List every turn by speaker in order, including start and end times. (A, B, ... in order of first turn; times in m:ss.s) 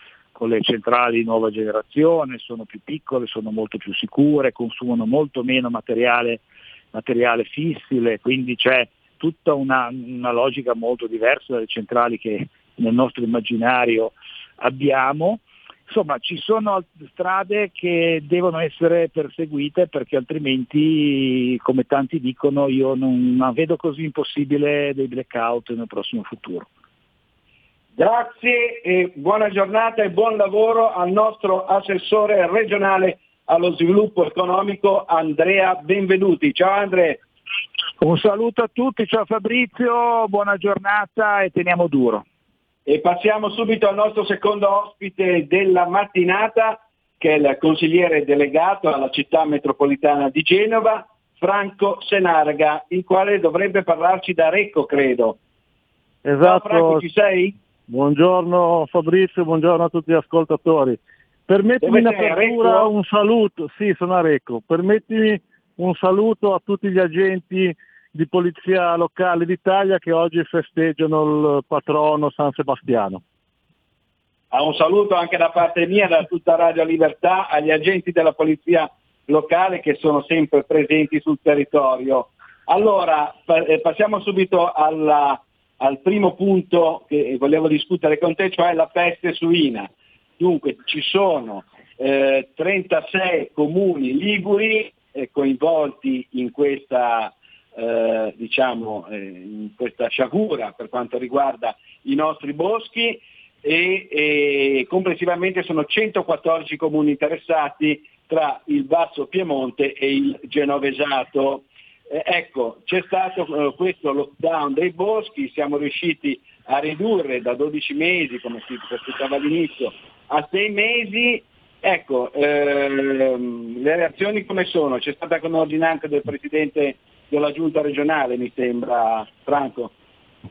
0:00.4-0:26.7 A
0:28.0-0:37.2 B
0:38.0-0:42.2 A
0:42.9-0:55.4 B
0:56.2-0:57.0 C
0:56.4-0:57.6 B
0:57.9-1:13.2 C
1:01.8-1:02.9 B
1:14.5-2:09.9 B